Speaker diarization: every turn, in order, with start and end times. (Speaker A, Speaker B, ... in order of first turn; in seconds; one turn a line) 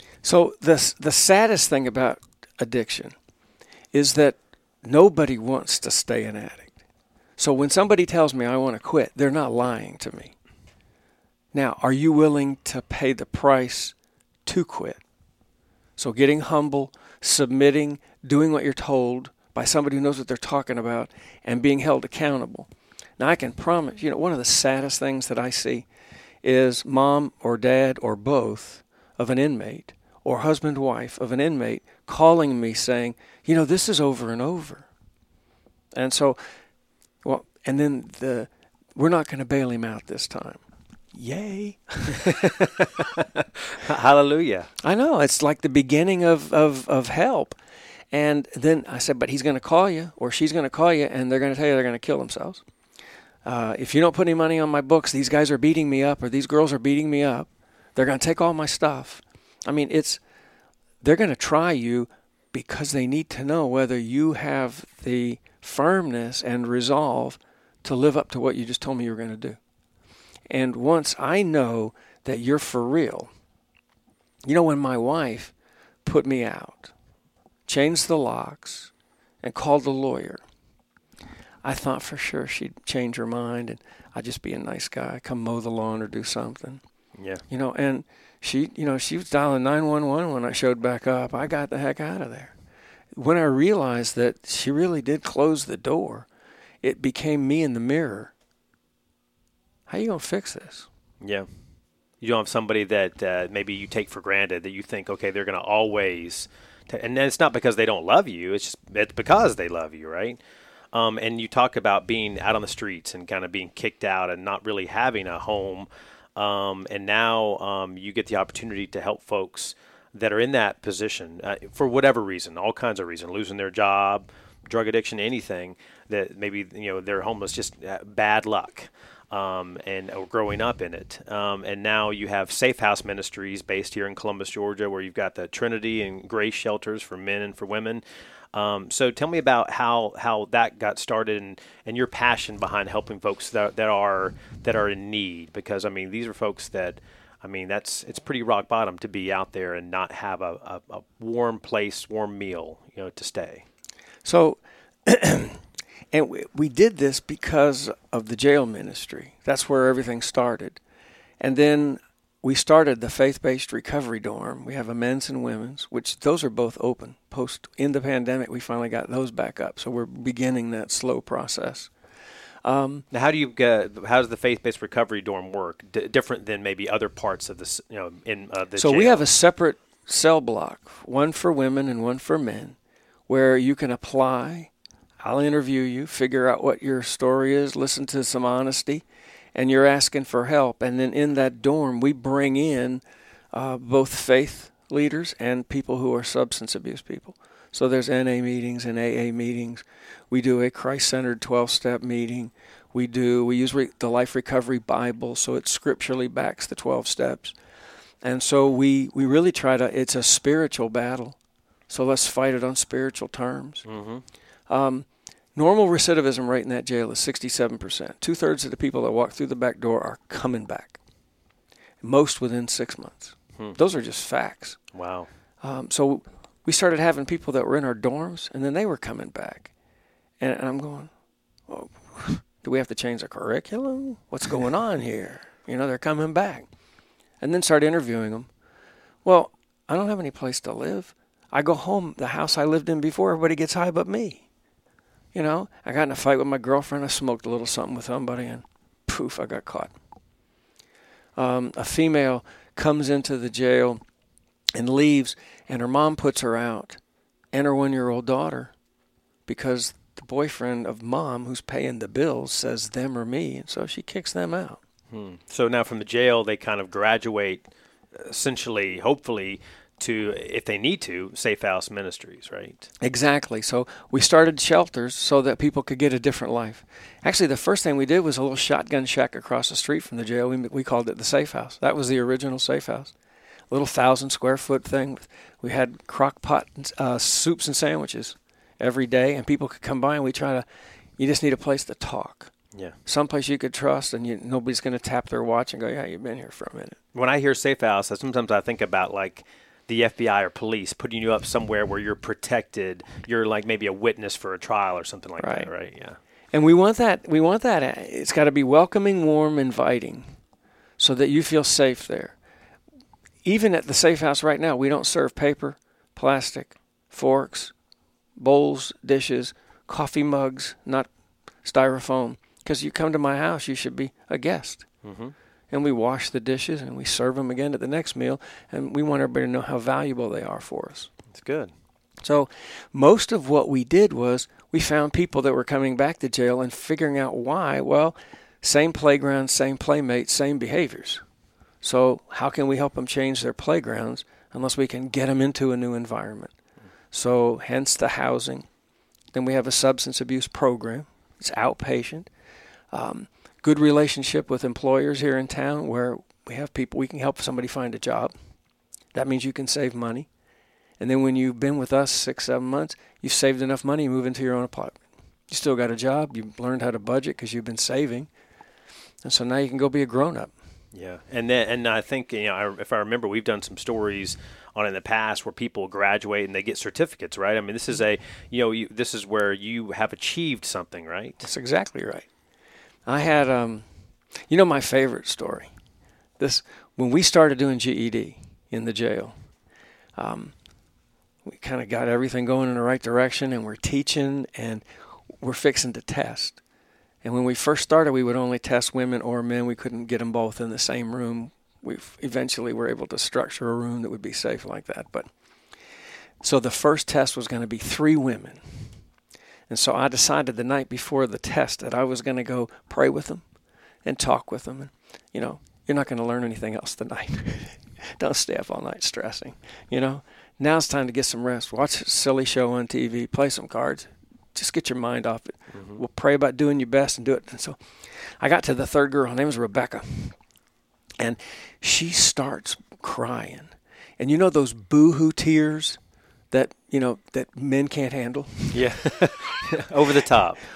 Speaker A: 0.2-3.1
Speaker A: 3.9-6.8
Speaker A: 7.4-10.3
Speaker A: 11.5-13.9
Speaker A: 14.4-15.0
Speaker A: 16.0-25.9
Speaker A: 26.4-34.9
Speaker A: 35.9-36.4
Speaker A: 37.2-40.6
Speaker A: 41.1-42.7
Speaker B: 42.2-44.7
Speaker A: 44.8-47.6
Speaker A: 48.1-52.6
Speaker A: 53.4-60.2
Speaker A: 61.0-69.6
Speaker A: 70.5-73.3
Speaker A: 74.4-75.5
Speaker A: 76.0-76.9
Speaker A: 77.7-80.4
Speaker A: 81.6-86.8
Speaker B: 87.2-87.4
Speaker A: 87.5-92.5
Speaker A: 93.1-96.3
Speaker A: 96.8-98.3
Speaker A: 99.9-100.9
Speaker B: 101.2-101.5
Speaker B: 102.2-110.4
Speaker B: 110.9-153.7
Speaker A: 154.2-155.6
Speaker A: 156.1-160.8
Speaker A: 161.4-171.9
Speaker A: 172.6-173.0
Speaker B: 173.1-179.2
Speaker A: 178.8-182.8
Speaker A: 183.3-184.7
Speaker A: 185.2-193.0
Speaker A: 193.5-207.6
Speaker A: 208.2-211.4
Speaker A: 211.9-213.8
Speaker B: 213.8-214.2
Speaker A: 214.7-221.0
Speaker A: 222.0-224.8
Speaker B: 224.9-225.3
Speaker A: 225.6-229.7
Speaker A: 230.4-231.1
Speaker A: 231.7-236.7
Speaker A: 237.4-238.5
Speaker A: 239.2-244.4
Speaker A: 245.3-249.9
Speaker A: 251.4-254.0
Speaker A: 254.7-257.0
Speaker A: 257.5-258.7
Speaker A: 259.5-264.8
Speaker B: 265.1-272.9
Speaker A: 273.0-283.1
Speaker A: 283.7-290.6
Speaker A: 291.2-292.5
Speaker A: 293.1-297.0
Speaker B: 297.1-306.2
Speaker A: 305.4-305.7
Speaker A: 306.5-310.4
Speaker A: 311.0-312.4
Speaker A: 313.4-317.7
Speaker A: 318.4-321.1
Speaker A: 321.6-324.9
Speaker B: 325.0-325.3
Speaker A: 325.7-331.1
Speaker B: 331.3-331.7
Speaker A: 332.2-341.2
Speaker A: 341.8-346.5
Speaker A: 347.1-348.7
Speaker A: 349.3-352.3
Speaker A: 352.9-358.3
Speaker A: 359.1-360.3
Speaker A: 361.0-368.3
Speaker A: 369.2-370.5
Speaker B: 370.9-381.4
Speaker A: 381.4-382.3
Speaker A: 383.1-383.8
Speaker A: 384.5-385.7
Speaker A: 386.4-389.3
Speaker A: 390.2-390.5
Speaker A: 391.4-394.8
Speaker A: 395.4-396.6
Speaker A: 397.2-405.3
Speaker A: 406.4-408.8
Speaker A: 409.7-413.4
Speaker A: 414.0-430.4
Speaker A: 431.2-436.0
Speaker A: 436.5-439.0
Speaker B: 438.7-440.6